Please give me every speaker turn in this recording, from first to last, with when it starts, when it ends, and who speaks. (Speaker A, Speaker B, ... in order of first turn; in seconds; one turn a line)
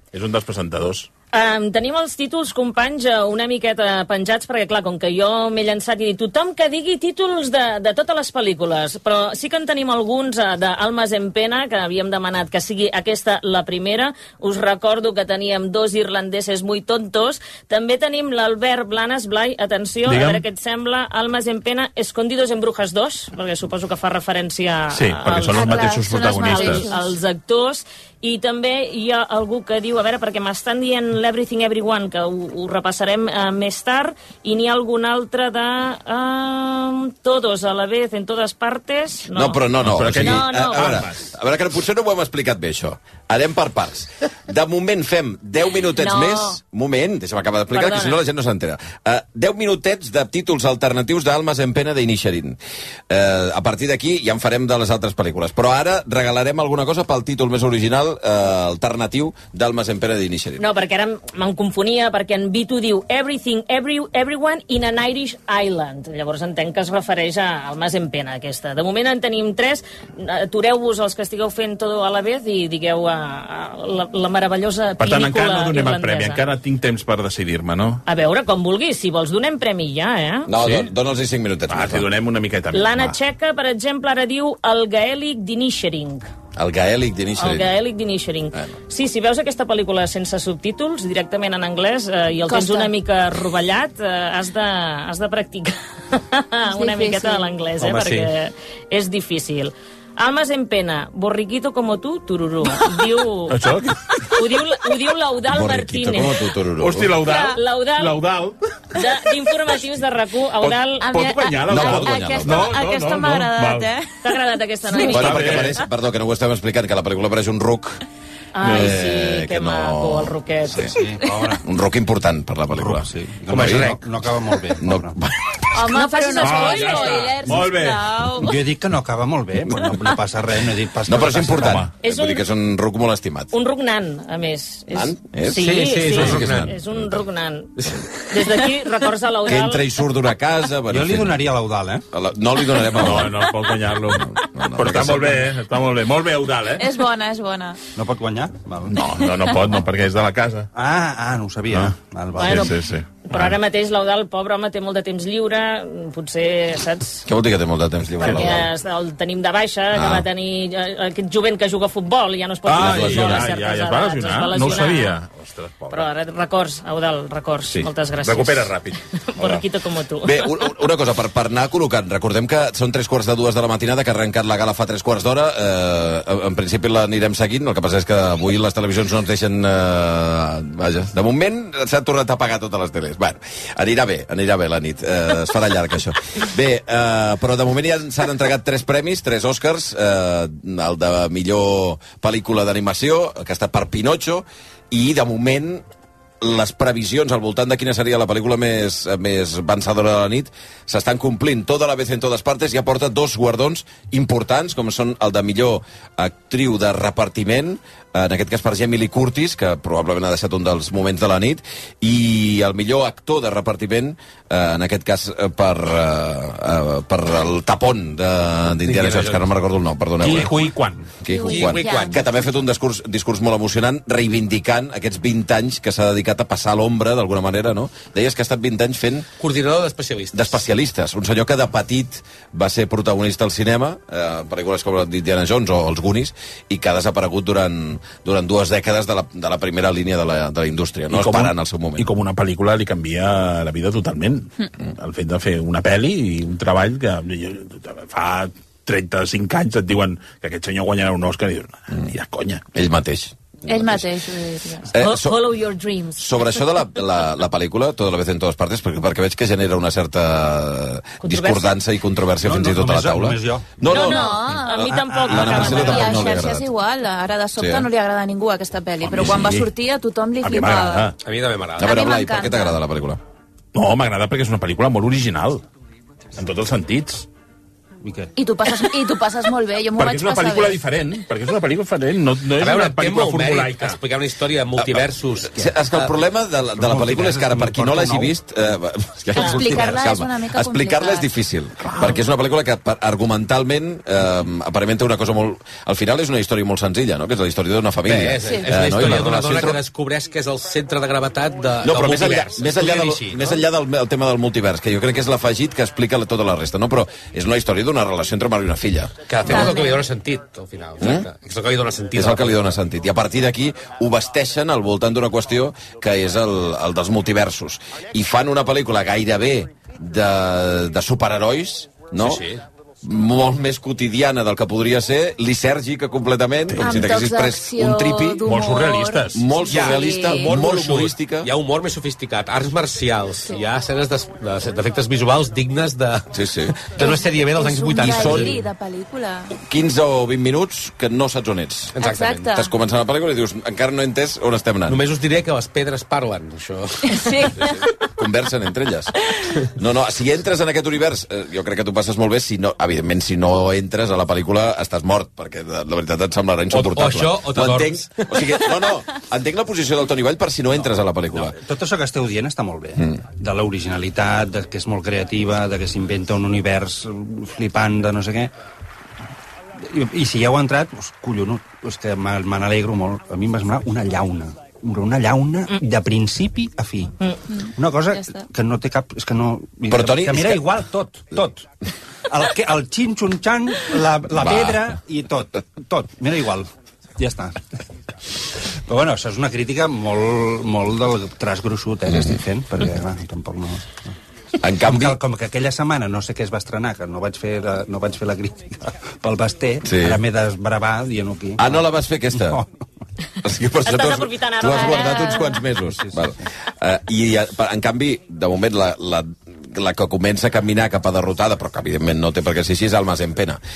Speaker A: 0.1-1.1
Speaker B: 1.3-39.6
Speaker A: 20.1-20.4
Speaker A: 24.9-26.9
Speaker C: 25.5-27.2
Speaker D: 39.3-52.6
Speaker A: 39.8-41.3
Speaker B: 40.2-41.0
Speaker B: 46.0-46.5
Speaker C: 46.1-46.5
Speaker B: 47.7-48.2
Speaker D: 53.1-60.6
Speaker B: 60.6-76.4
Speaker A: 75.0-78.0
Speaker B: 78.1-80.5
Speaker D: 80.5-82.1
Speaker A: 81.7-83.2
Speaker B: 82.7-86.3
Speaker D: 86.6-87.7
Speaker B: 87.4-103.6
Speaker C: 92.4-92.9
Speaker C: 96.7-97.5
Speaker E: 97.8-98.3
Speaker A: 103.5-104.0
Speaker B: 104.3-106.5
Speaker D: 105.5-107.2
Speaker A: 106.8-108.6
Speaker C: 107.2-107.6
Speaker B: 107.3-108.2
Speaker B: 109.0-111.2
Speaker A: 110.6-113.9
Speaker C: 111.0-114.4
Speaker D: 111.7-112.8
Speaker B: 114.2-115.7
Speaker A: 115.0-115.8
Speaker D: 115.1-118.0
Speaker B: 118.5-121.0
Speaker D: 118.6-120.9
Speaker F: 120.9-121.6
Speaker D: 121.6-124.0
Speaker F: 122.7-125.2
Speaker E: 123.5-124.0
Speaker D: 124.8-125.3
Speaker B: 125.7-127.3
Speaker C: 125.7-128.6
Speaker A: 126.4-128.1
Speaker F: 128.4-131.9
Speaker D: 131.1-133.5
Speaker A: 131.6-131.9
Speaker B: 132.0-132.4
Speaker B: 133.5-137.7
Speaker D: 134.9-137.2
Speaker E: 135.6-136.7
Speaker E: 137.8-138.0
Speaker B: 138.3-139.8
Speaker D: 139.5-141.4
Speaker F: 140.9-142.0
Speaker D: 142.1-143.4
Speaker A: 142.9-146.9
Speaker D: 144.1-145.5
Speaker C: 146.8-147.8
Speaker F: 148.0-149.1
Speaker A: 148.9-150.7
Speaker C: 149.2-149.6
Speaker F: 150.8-152.7
Speaker A: 151.7-153.6
Speaker B: 152.4-157.2
Speaker D: 157.3-158.7
Speaker A: 158.2-158.6
Speaker B: 158.2-165.2
Speaker D: 159.9-160.2
Speaker A: 162.7-166.1
Speaker D: 162.7-163.5
Speaker B: 165.9-168.7
Speaker A: 167.7-169.7
Speaker B: 169.4-170.6
Speaker D: 170.2-195.8
Speaker D: 196.4-220.6
Speaker E: 218.8-219.5
Speaker A: 220.2-221.1
Speaker E: 220.3-220.7
Speaker D: 221.2-229.3
Speaker C: 221.3-222.2
Speaker E: 221.4-222.2
Speaker E: 229.4-230.6
Speaker D: 230.3-242.1
Speaker A: 241.1-252.6
Speaker D: 252.7-254.0
Speaker C: 253.7-254.9
Speaker B: 254.8-256.6
Speaker D: 254.9-255.4
Speaker D: 256.2-266.7
Speaker B: 261.2-261.8
Speaker F: 262.4-263.7
Speaker C: 263.9-271.1
Speaker B: 263.9-266.3
Speaker D: 267.6-267.9
Speaker A: 269.0-269.7
Speaker A: 270.4-271.1
Speaker E: 271.2-271.9
Speaker C: 271.8-272.8
Speaker D: 271.8-273.2
Speaker A: 273.7-275.7
Speaker A: 276.4-277.3
Speaker F: 278.0-278.3
Speaker C: 278.4-280.8
Speaker A: 280.0-284.0
Speaker E: 282.6-286.1
Speaker D: 284.8-299.8
Speaker F: 286.8-288.4
Speaker C: 289.3-291.3
Speaker B: 289.4-289.6
Speaker E: 298.1-303.6
Speaker C: 298.4-298.7
Speaker D: 301.8-309.8
Speaker E: 309.3-312.7
Speaker C: 309.4-310.1
Speaker D: 311.0-311.3
Speaker D: 312.1-322.4
Speaker E: 322.2-322.6
Speaker D: 323.0-328.6
Speaker C: 326.8-330.6
Speaker A: 328.4-329.5
Speaker D: 329.3-331.5
Speaker E: 329.6-338.7
Speaker D: 336.3-336.8
Speaker C: 336.9-339.5
Speaker D: 338.0-338.5
Speaker D: 339.6-342.0
Speaker E: 341.9-342.5
Speaker C: 342.0-342.7
Speaker D: 342.5-345.0
Speaker E: 344.9-347.9
Speaker C: 347.1-347.8
Speaker D: 348.2-349.2
Speaker D: 349.7-361.6
Speaker E: 356.7-358.6
Speaker F: 361.6-368.5
Speaker F: 369.8-377.1
Speaker C: 377.5-378.4
Speaker F: 377.7-381.7
Speaker D: 379.9-380.7
Speaker F: 382.3-387.6
Speaker D: 384.4-384.8
Speaker F: 388.9-394.1
Speaker D: 394.6-395.2
Speaker F: 394.8-402.7
Speaker D: 399.8-400.2
Speaker D: 401.6-402.6
Speaker D: 403.4-413.6
Speaker B: 403.9-405.6
Speaker C: 404.7-405.6
Speaker F: 405.9-406.4